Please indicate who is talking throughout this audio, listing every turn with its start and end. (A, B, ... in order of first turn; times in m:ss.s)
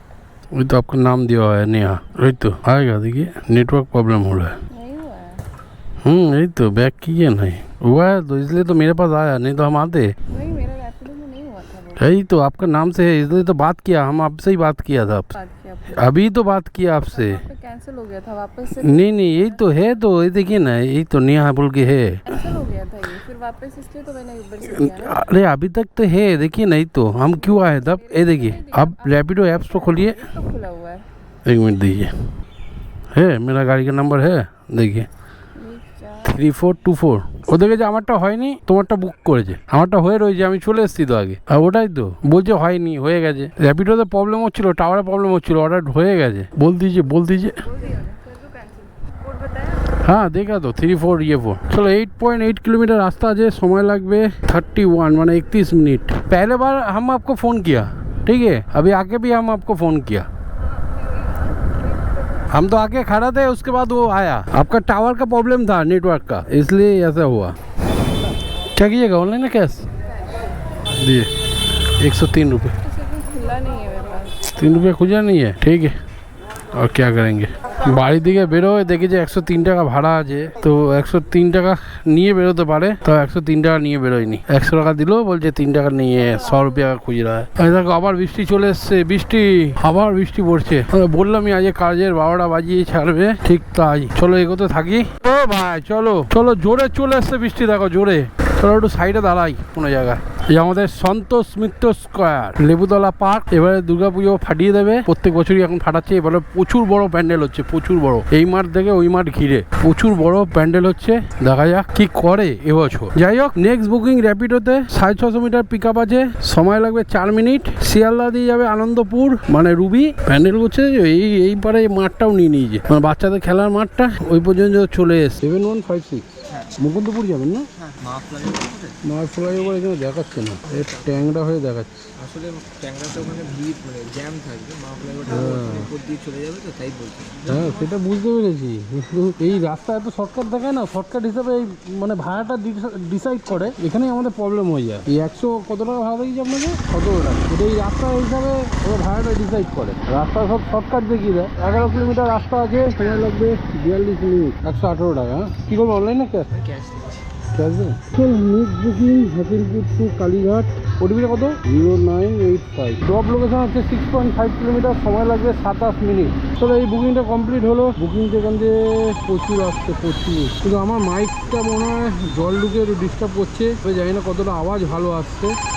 0:00.5-0:04.6 A
0:04.7-0:05.4 B
0:06.0-0:10.1 A
0:10.3-0:12.0 B
0:12.0-0:15.3 A
0:15.3-0:16.2 B
0:15.9-0:17.4 A
0:17.1-0:19.8 B
0:18.7-0:22.5 A
0:22.3-0:25.2 B
0:24.6-0:30.2 A
0:27.3-0:31.0 B
0:31.4-0:32.1 A
0:33.1-0:35.1 A
0:35.6-0:36.4 B
0:36.2-0:47.6 A
0:47.7-0:49.9 B
0:50.0-1:00.3 A
1:02.5-1:07.6 A
1:08.7-1:09.8 A
1:10.9-1:11.3 A
1:12.0-1:12.8 A
1:12.8-1:14.5 B
1:14.6-1:15.9 A
1:16.7-2:07.7 A
2:07.8-2:09.0 C
2:09.0-2:11.9 A
2:10.7-2:11.2 C
2:12.2-2:17.7 C
2:15.3-2:15.9 A
2:17.4-2:36.6 A
2:36.9-2:37.2 C
2:37.5-2:55.6 A